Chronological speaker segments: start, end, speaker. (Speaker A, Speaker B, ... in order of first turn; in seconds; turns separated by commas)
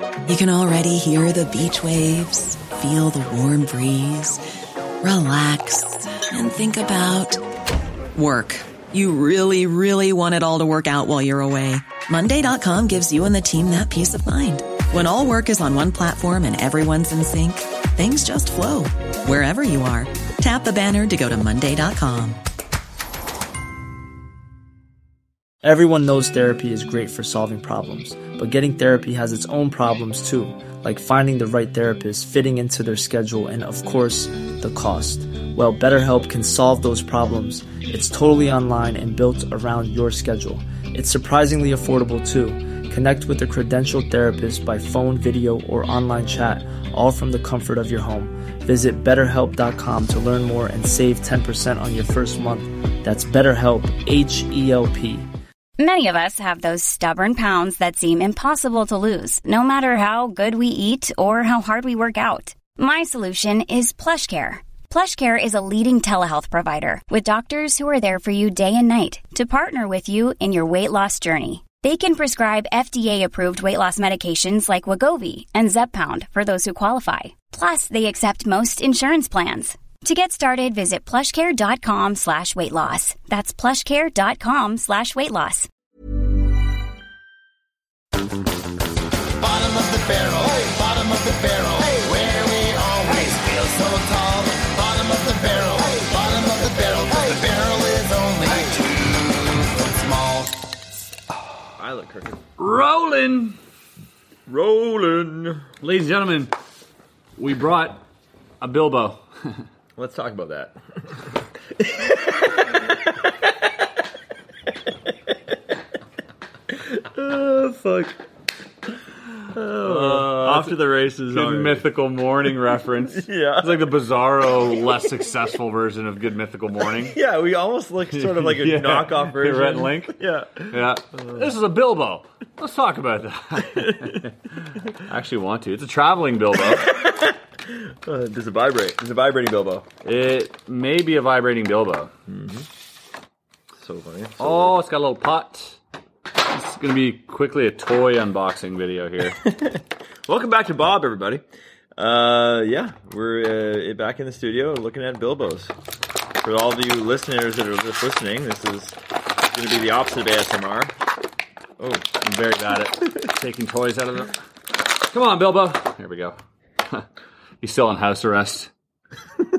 Speaker A: 0.2-4.4, Speaker A: 5.0-7.4, Speaker A: 8.1-22.4, Speaker B: 25.6-55.3, Speaker C: 55.8-85.7, Speaker D: 89.4-100.6, Speaker E: 101.8-102.4, Speaker F: 102.6-103.6, Speaker E: 104.5-105.7, Speaker F: 105.8-106.5, Speaker F: 107.3-108.0, Speaker F: 108.6-109.2, Speaker E: 110.0-110.8, Speaker E: 111.8-113.8, Speaker E: 116.7-118.2, Speaker E: 119.5-121.8, Speaker F: 119.8-120.8, Speaker F: 121.3-127.2, Speaker E: 123.0-123.9, Speaker E: 126.9-131.5, Speaker F: 128.1-130.2, Speaker F: 130.7-136.9, Speaker E: 133.7-134.2, Speaker E: 136.6-139.9, Speaker F: 140.0-142.1, Speaker E: 142.3-142.7, Speaker E: 143.7-144.8, Speaker F: 144.4-145.8, Speaker F: 146.4-149.4, Speaker E: 149.3-151.4, Speaker E: 152.0-155.7, Speaker E: 156.4-160.9, Speaker E: 161.8-162.0, Speaker F: 162.1-164.4, Speaker F: 165.0-166.4, Speaker F: 167.6-168.7